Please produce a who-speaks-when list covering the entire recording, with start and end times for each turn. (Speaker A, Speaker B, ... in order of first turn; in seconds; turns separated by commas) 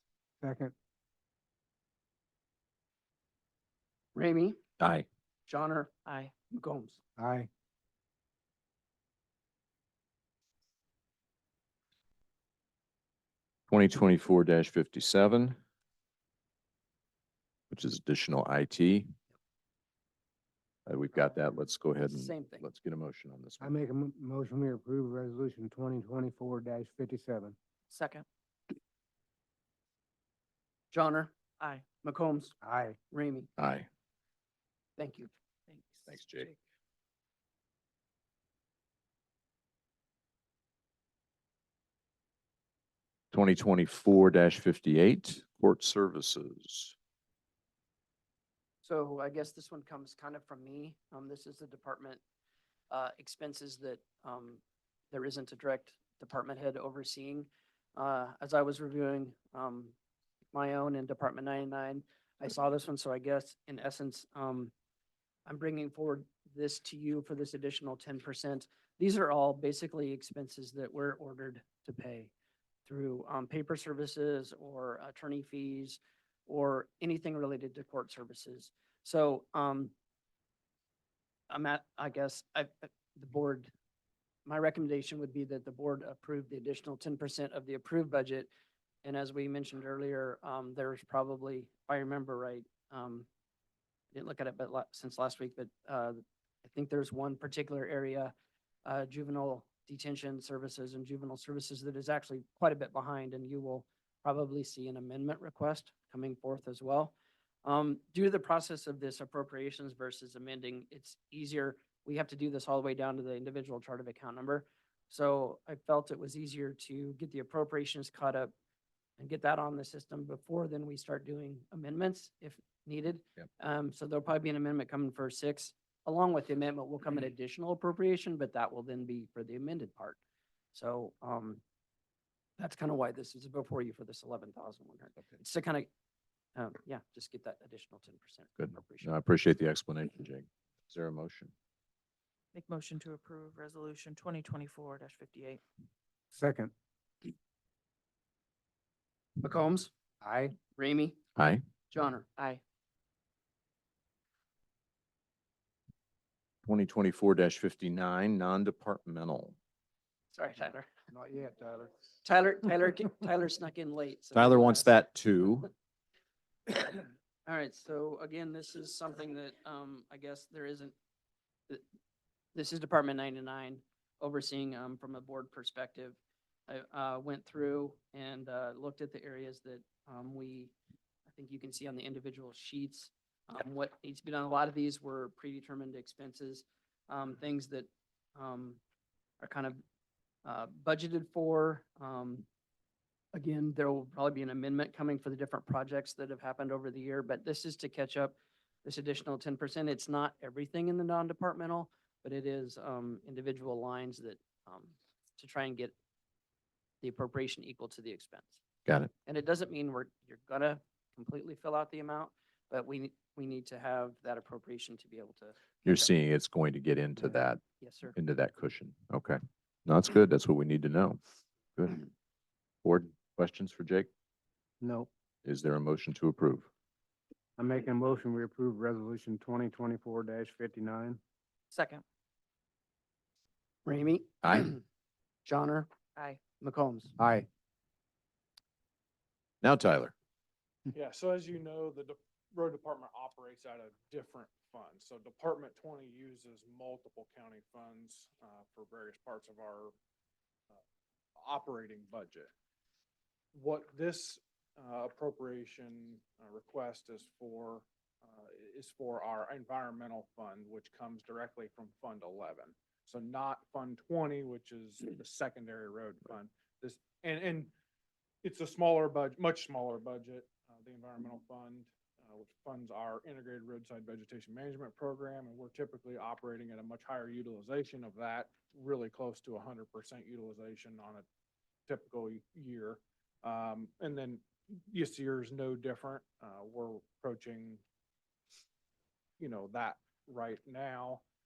Speaker A: 0.4-0.7, Speaker B: 4.1-4.6, Speaker C: 4.8-5.1, Speaker B: 5.5-5.9, Speaker D: 6.1-6.3, Speaker B: 6.5-7.0, Speaker A: 7.2-7.5, Speaker C: 13.7-15.6, Speaker C: 17.7-19.1, Speaker C: 20.9-23.7, Speaker B: 22.1-22.6, Speaker A: 23.6-27.5, Speaker D: 27.9-28.2, Speaker B: 30.9-31.3, Speaker D: 31.6-31.9, Speaker B: 32.0-32.5, Speaker A: 32.6-33.0, Speaker B: 33.1-33.5, Speaker C: 33.6-33.9, Speaker B: 35.0-35.3, Speaker D: 35.7-36.6, Speaker C: 36.1-36.5, Speaker C: 43.3-47.0, Speaker B: 48.8-52.2, Speaker B: 52.9-60.0, Speaker B: 60.5-64.7, Speaker B: 65.5-72.3, Speaker B: 72.8-79.9, Speaker B: 81.5-83.7, Speaker B: 84.5-88.5, Speaker B: 89.0-93.3, Speaker B: 94.1-98.3, Speaker B: 98.8-118.5, Speaker B: 119.2-130.2, Speaker B: 130.7-131.6, Speaker B: 132.6-135.9, Speaker B: 136.5-139.1, Speaker C: 138.6-141.5, Speaker D: 142.5-145.6, Speaker A: 146.3-146.7, Speaker B: 149.4-149.9, Speaker A: 150.2-150.6, Speaker B: 150.7-151.2, Speaker C: 151.4-151.6, Speaker B: 151.9-152.3, Speaker C: 156.6-159.6, Speaker B: 160.3-160.9, Speaker A: 161.1-161.9, Speaker B: 162.2-164.9, Speaker C: 164.3-165.7, Speaker B: 166.7-170.9, Speaker B: 172.5-176.2, Speaker B: 176.7-180.7, Speaker B: 181.3-188.8, Speaker B: 189.4-189.8, Speaker B: 190.4-192.4, Speaker B: 193.3-205.9, Speaker B: 207.0-208.6, Speaker B: 209.2-216.1, Speaker C: 215.8-217.6, Speaker B: 217.7-218.1, Speaker C: 218.1-221.2, Speaker C: 221.8-222.1, Speaker C: 222.8-224.1, Speaker A: 224.8-225.1, Speaker C: 225.4-226.7, Speaker A: 227.6-231.2, Speaker D: 231.7-232.0, Speaker B: 233.8-234.8, Speaker B: 235.4-235.9, Speaker D: 236.2-236.4, Speaker B: 236.6-237.1, Speaker A: 237.2-237.5, Speaker C: 239.6-240.1, Speaker E: 240.9-249.9, Speaker E: 251.4-252.5, Speaker E: 253.5-267.7, Speaker E: 268.4-281.2, Speaker E: 281.9-287.8, Speaker E: 289.4-291.2